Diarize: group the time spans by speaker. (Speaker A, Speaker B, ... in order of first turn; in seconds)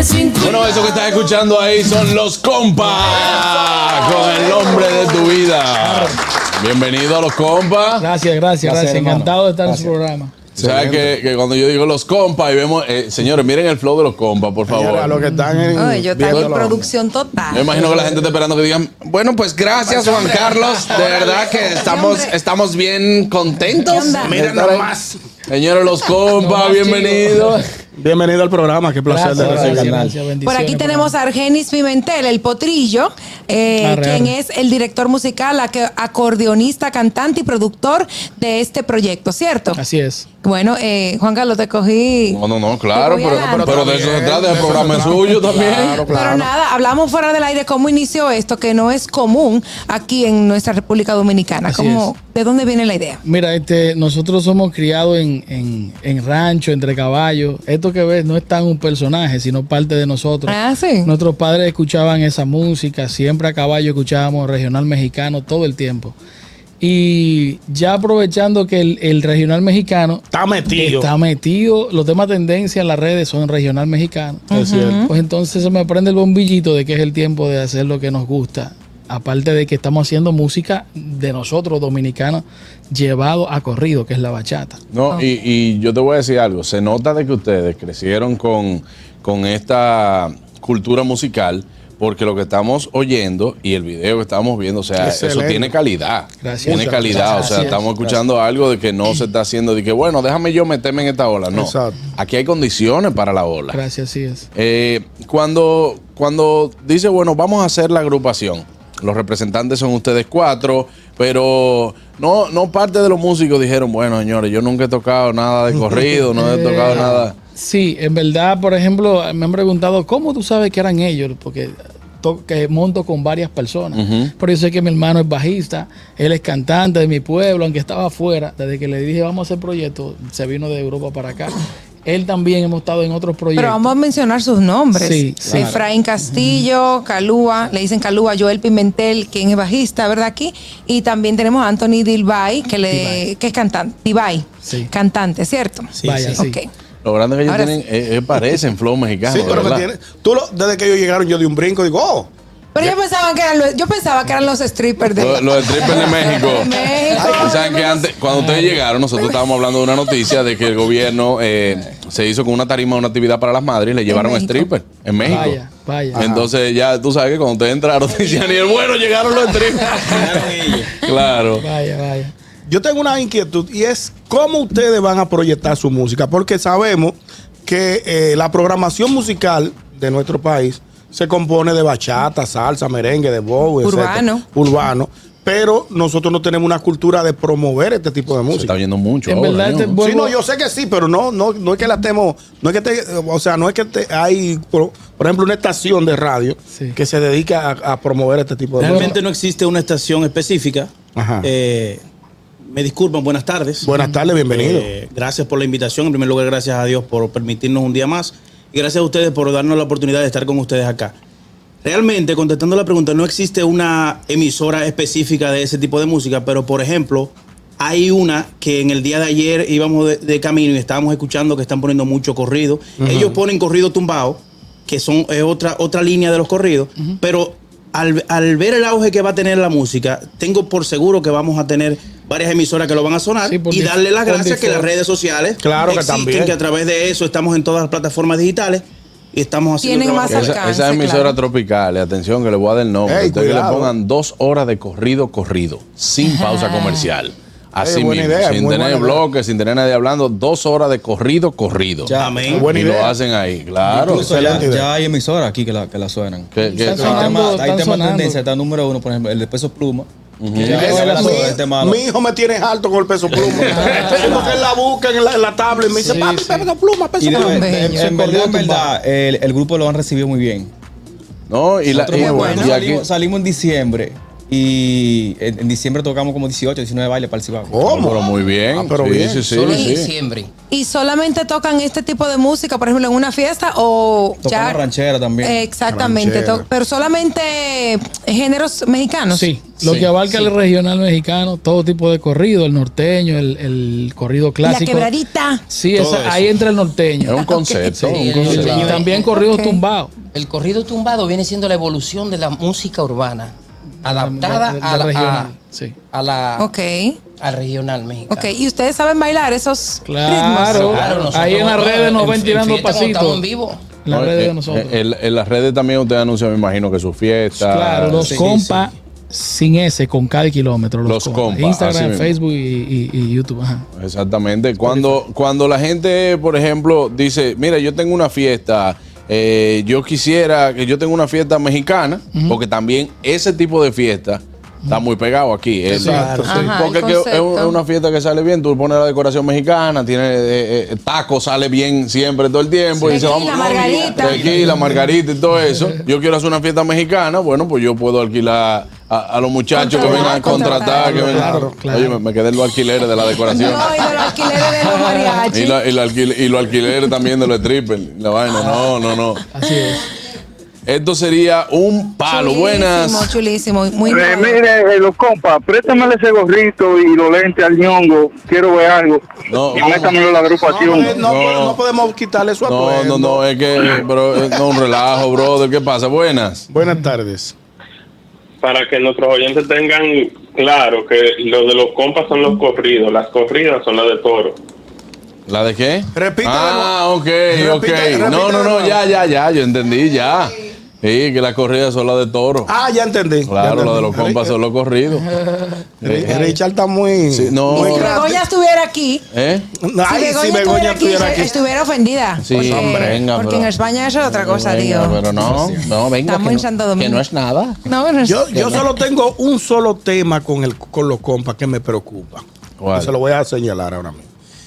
Speaker A: 0.3-8.1, 10.6-15.3, 16.3-16.7, 17.5-24.9, 25.5-27.6, 42.3-46.3, 84.9-103.8, 104.5-117.3, 124.0-124.3, 147.0-149.9, 155.2-165.6, 166.2-171.7, 188.5-190.0, 240.2-254.6, 256.5-257.4, 260.4-260.9, 271.5-273.1, 277.9-280.1, 289.8-290.1, 297.2-299.0, 314.1-318.4, 321.1-322.3, 324.0-354.8, 355.5-359.4, 360.9-363.3, 369.5-370.2, 371.2-371.8, 372.6-376.6, 385.5-392.7, 393.5-395.3, 396.0-396.6, 397.3-398.2, 399.3-399.7, 402.4-407.8, 408.5-408.9, 412.8-413.1
Speaker B: 5.8-6.2, 8.0-10.3, 15.3-15.8, 17.7-18.3, 26.4-27.6, 29.1-31.2, 33.8-34.4, 39.8-40.3, 51.6-52.1, 53.2-66.2, 66.8-74.5, 75.0-84.8, 96.4-97.8, 103.7-104.5, 116.3-133.9, 134.9-136.7, 142.9-143.3, 144.6-144.9, 146.0-146.6, 158.3-158.8, 165.2-166.2, 171.6-172.3, 189.2-190.4, 196.7-197.0, 198.8-199.1, 203.9-204.3, 233.5-234.9, 256.6-258.4, 260.6-261.5, 263.7-264.5, 266.0-266.7, 267.7-268.9, 289.3-295.2, 295.7-300.1, 304.0-305.9, 310.1-313.4, 314.0-315.0, 317.6-323.9, 332.3-332.6, 335.9-336.7, 344.5-345.1, 350.0-352.2, 354.9-355.4, 359.5-360.1, 395.1-396.4
Speaker C: 8.6-10.0, 29.3-30.2, 98.0-98.2, 135.5-135.8, 165.2-165.5, 170.0-171.0, 252.0-252.8, 253.8-262.0, 263.8-264.7, 267.2-270.7, 271.9-278.2, 284.4-285.7, 310.3-311.3, 318.1-318.9, 324.9-325.2, 342.9-344.9, 405.3-405.9
Speaker D: 10.6-11.1, 14.7-16.9, 24.2-25.2, 27.9-30.0, 43.4-46.5, 70.3-71.1, 74.5-75.1, 95.0-95.8, 96.7-97.1, 101.5-102.0, 149.3-152.3, 157.2-157.6, 166.1-166.5, 172.7-188.7, 190.0-199.2, 201.1-201.5, 203.8-204.9, 223.0-223.3, 235.6-236.5, 243.1-243.9, 247.8-249.2, 252.6-253.2, 254.2-254.9, 260.8-267.7, 277.7-278.2, 278.7-279.4, 285.9-286.7, 336.1-336.6, 351.1-351.7, 370.7-373.4, 376.7-377.5, 386.1-386.9, 387.5-389.0, 392.7-394.6, 396.0-398.5, 399.7-401.5, 402.5-403.3, 408.2-414.2
Speaker E: 15.8-17.7, 21.3-22.3, 23.9-24.3, 30.4-39.8, 40.4-42.4, 42.9-43.7, 45.7-53.2, 60.5-61.1, 74.5-75.1, 133.6-146.7, 147.5-147.7, 152.8-158.0, 164.1-164.6, 183.8-184.4, 239.8-241.4, 246.4-246.9, 267.5-268.0, 272.2-272.6, 280.7-284.8, 285.4-289.4, 294.6-295.6, 297.4-297.9, 299.2-299.8, 306.6-307.2, 308.3-310.4, 336.4-337.8, 343.1-344.3, 349.7-351.1, 353.5-355.8, 362.3-364.2, 397.7-399.2, 400.1-405.2, 406.2-407.2, 407.9-408.5
Speaker F: 19.9-21.6, 279.5-280.5, 298.1-299.3, 300.3-305.5, 306.1-306.7, 307.4-308.5, 310.6-313.9
Speaker G: 146.0-146.4, 198.8-202.0, 202.7-203.9, 204.4-211.2, 211.8-240.9, 252.2-252.6, 295.9-296.5, 336.0-336.7
Speaker H: 364.1-371.2
Speaker I: 378.6-384.6